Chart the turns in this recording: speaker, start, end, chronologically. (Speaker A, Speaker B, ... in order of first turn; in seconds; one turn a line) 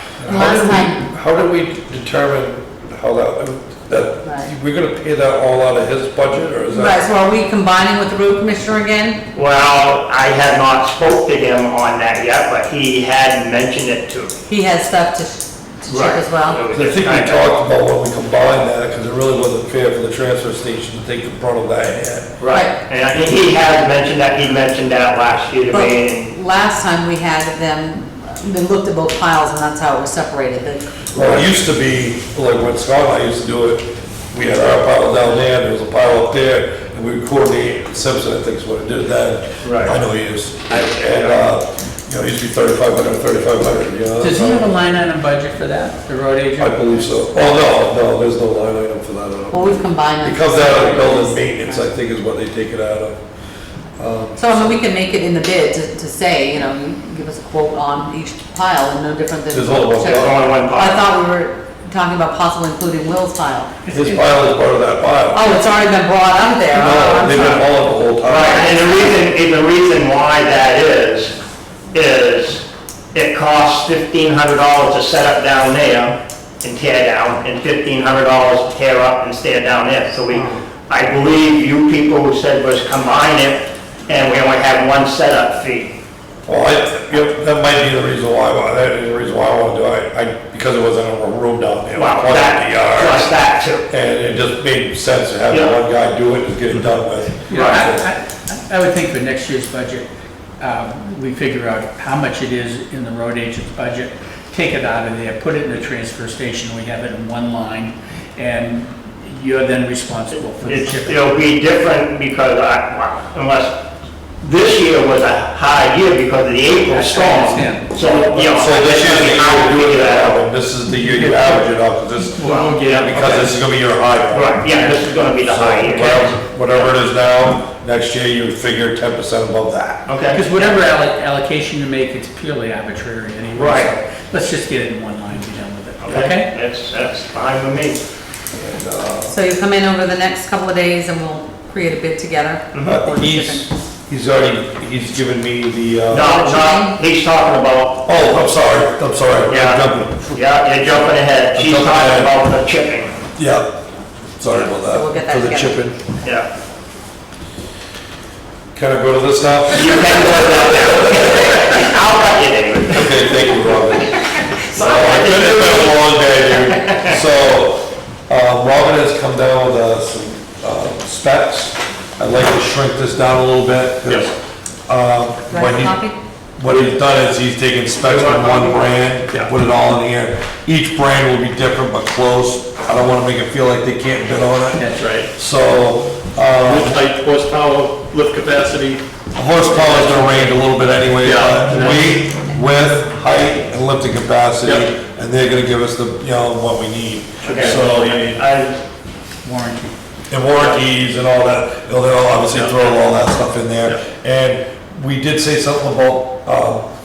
Speaker A: 0.2-7.0
Speaker B: 0.3-1.0
Speaker B: 4.2-4.5
Speaker B: 6.7-9.2
Speaker C: 9.3-14.4
Speaker B: 14.5-16.6
Speaker C: 15.9-17.5
Speaker A: 16.7-22.3
Speaker C: 22.4-26.3
Speaker B: 22.5-22.8
Speaker B: 25.7-31.0
Speaker A: 31.1-44.7
Speaker C: 31.1-31.5
Speaker C: 39.6-40.0
Speaker C: 40.7-41.5
Speaker D: 44.2-47.0
Speaker A: 46.6-53.2
Speaker B: 49.5-51.9
Speaker A: 54.0-54.8
Speaker B: 54.4-63.7
Speaker A: 59.5-60.5
Speaker C: 60.0-61.1
Speaker D: 63.9-64.5
Speaker A: 63.9-65.6
Speaker B: 65.3-67.7
Speaker A: 66.7-68.8
Speaker C: 68.2-71.4
Speaker C: 71.9-85.9
Speaker B: 80.3-80.6
Speaker A: 86.5-93.3
Speaker C: 92.0-93.9
Speaker A: 93.9-98.1
Speaker C: 95.5-95.8
Speaker D: 97.5-100.1
Speaker C: 97.5-97.9
Speaker D: 100.6-111.3
Speaker C: 110.6-113.8
Speaker C: 114.4-120.4
Speaker D: 116.9-118.0
Speaker A: 118.3-130.1
Speaker D: 121.0-123.5
Speaker C: 122.4-123.5
Speaker C: 124.3-126.9
Speaker C: 130.1-130.8
Speaker D: 130.3-136.5
Speaker C: 133.6-133.9
Speaker C: 136.0-138.0
Speaker A: 138.6-139.3
Speaker B: 139.3-143.7
Speaker C: 142.7-143.0
Speaker A: 142.9-146.4
Speaker C: 146.1-148.0
Speaker B: 146.2-147.0
Speaker A: 148.1-150.4
Speaker C: 149.5-153.2
Speaker A: 151.6-152.3
Speaker A: 153.4-153.7
Speaker A: 154.4-156.0
Speaker B: 154.8-155.8
Speaker C: 156.2-156.5
Speaker A: 158.8-160.7
Speaker C: 159.7-163.6
Speaker A: 162.9-174.3
Speaker C: 164.7-167.2
Speaker A: 174.9-176.1
Speaker B: 175.5-176.2
Speaker A: 176.6-187.0
Speaker E: 176.7-177.0
Speaker C: 178.0-178.8
Speaker D: 184.8-185.0
Speaker E: 185.0-185.3
Speaker E: 186.6-189.0
Speaker A: 189.3-198.4
Speaker E: 189.8-190.5
Speaker E: 191.2-192.1
Speaker C: 197.4-198.8
Speaker E: 197.5-197.8
Speaker D: 199.4-199.9
Speaker A: 200.3-206.9